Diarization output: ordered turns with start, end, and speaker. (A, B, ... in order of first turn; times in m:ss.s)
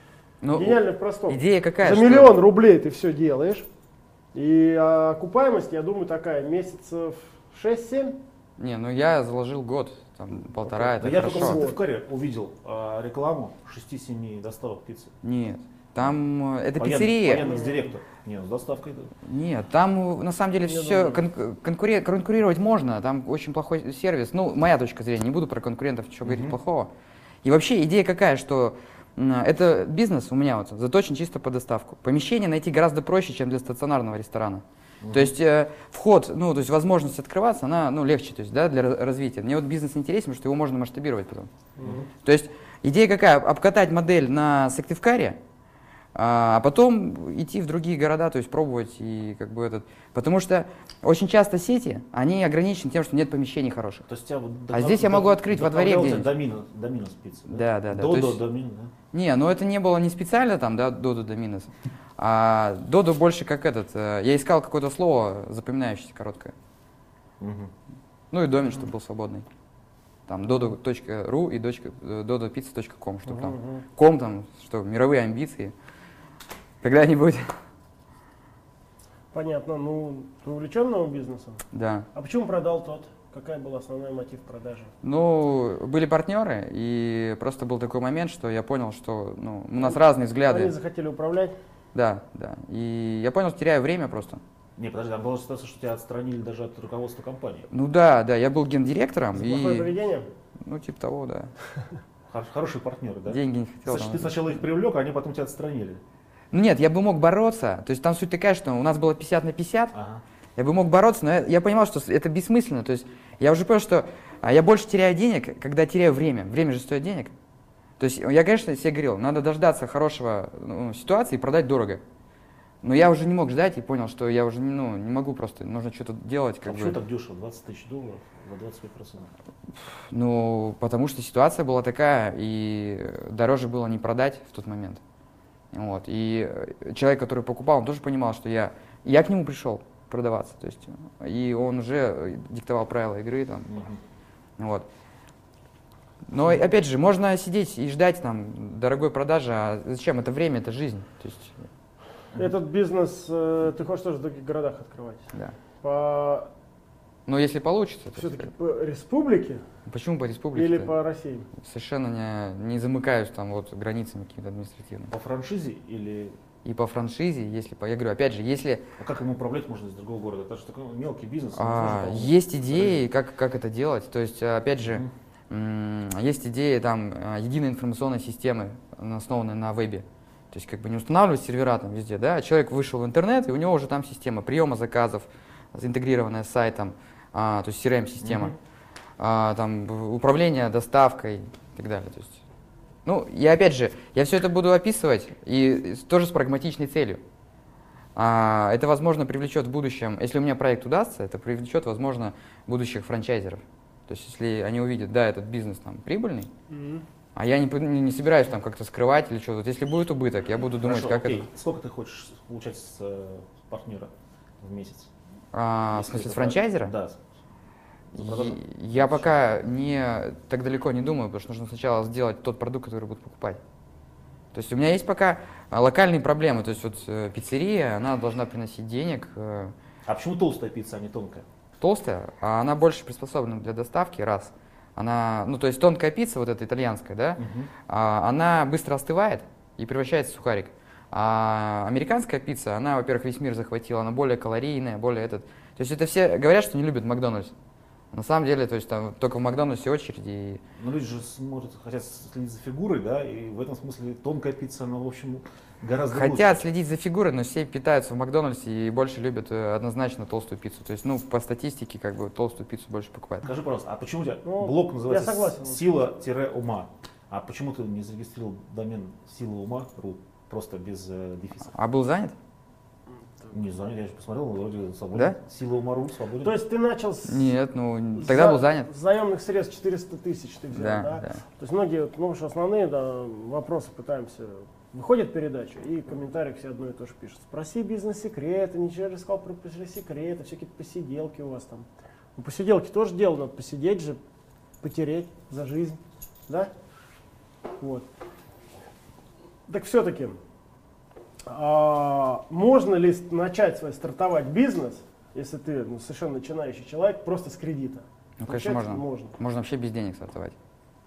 0:00.4-0:02.3 A
0:00.5-0:03.7 B
0:04.3-0:08.2 B
0:08.6-0:11.6 A
0:10.6-0:11.8 B
0:11.0-0:15.1 C
0:15.2-0:17.5 A
0:16.8-0:19.1 C
0:17.4-0:17.8 B
0:19.2-0:26.9 A
0:20.6-0:21.2 B
0:26.2-0:26.6 C
0:27.4-0:41.5 A
0:35.0-0:35.3 C
0:41.8-0:42.0 B
0:41.8-0:42.1 C
0:42.2-0:45.4 A
0:46.1-0:54.0 A
0:54.1-0:58.9 C
0:54.7-0:56.3 A
0:57.5-0:58.4 A
0:59.1-1:06.5 A
1:07.4-1:07.7 C
1:08.3-1:09.4 A
1:10.3-1:15.7 A
1:13.3-1:13.8 B
1:16.8-1:17.5 A
1:19.3-1:21.6 B
1:21.7-1:22.1 A
1:22.1-1:24.9 B
1:25.0-1:30.7 A
1:29.8-1:31.5 B
1:31.9-1:34.4 A
1:34.8-1:37.7 C
1:37.7-1:39.9 A
1:39.3-1:40.3 B
1:40.6-1:41.5 A
1:42.3-1:46.0 C
1:43.3-1:44.6 A
1:46.5-1:49.9 A
1:49.9-1:50.2 C
1:50.6-1:57.3 A
1:58.0-2:02.0 A
2:02.8-2:07.0 A
2:06.6-2:09.3 C
2:10.1-2:15.0 A
2:15.7-2:23.7 A
2:23.7-2:24.0 C
2:24.6-2:24.8 A
2:26.3-2:31.7 A
2:32.3-2:35.2 B
2:35.8-2:36.5 B
2:37.3-2:38.4 A
2:38.2-2:39.6 B
2:39.9-2:40.9 A
2:40.5-2:41.5 B
2:41.6-2:45.1 A
2:45.1-2:46.4 C
2:46.6-2:48.8 A
2:49.0-2:53.0 C
2:51.6-3:08.5 A
2:54.8-2:55.1 C
3:08.2-3:08.5 C
3:09.2-3:12.4 A
3:13.0-3:17.2 A
3:18.2-3:26.5 A
3:26.7-3:27.0 B
3:27.3-3:31.5 A
3:30.8-3:35.1 C
3:35.5-3:36.9 A
3:35.9-3:37.2 C
3:38.1-3:39.4 C
3:38.1-3:43.6 A
3:44.5-3:49.7 A
3:50.0-3:51.4 C
3:51.8-4:07.5 A
3:57.4-3:57.7 C
4:08.1-4:10.6 A
4:10.8-4:16.6 C
4:16.1-4:23.5 A
4:23.4-4:31.7 C
4:24.4-4:25.8 B
4:31.7-4:32.4 A
4:33.5-4:36.6 C
4:36.4-4:37.5 B
4:37.3-4:38.9 A
4:38.2-4:54.2 B
4:40.7-4:41.4 A
4:54.8-4:56.7 B
4:57.8-4:58.1 B
4:59.7-5:00.4 B
5:01.4-5:09.4 B
5:08.4-5:10.5 A